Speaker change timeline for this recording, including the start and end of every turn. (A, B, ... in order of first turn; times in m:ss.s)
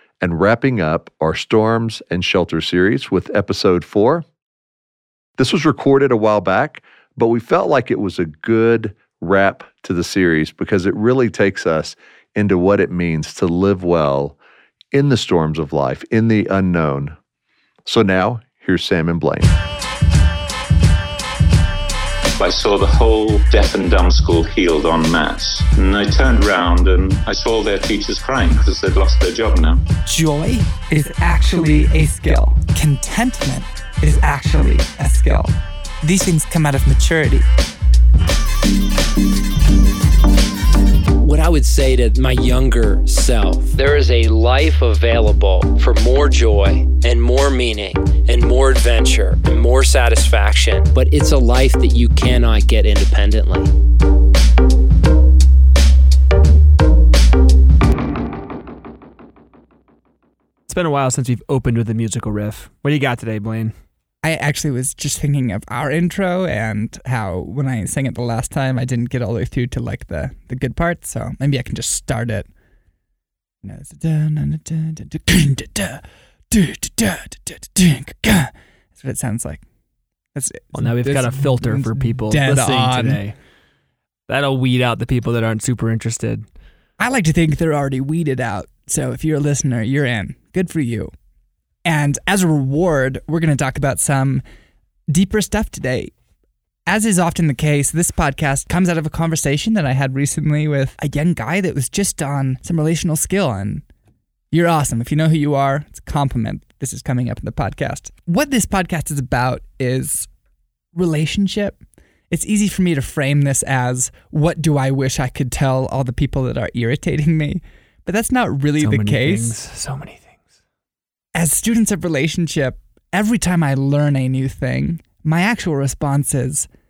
0:00.2-0:04.2 A
0:05.4-0:14.4 A
0:14.9-0:17.2 A
0:17.8-0:19.5 A
0:22.4-0:29.8 B
0:30.0-0:37.4 C
0:41.2-0:53.7 D
1:00.7-1:03.7 E
1:04.2-1:12.5 C
1:13.6-1:19.6 C
1:20.3-1:23.2 C
1:20.7-1:23.3 E
1:24.3-1:26.4 E
1:27.0-1:31.1 C
1:31.8-1:34.4 C
1:35.1-1:36.1 C
1:36.9-1:43.8 C
1:44.5-1:50.3 C
1:50.9-1:59.6 C
1:58.8-2:00.4 E
2:01.3-2:06.7 C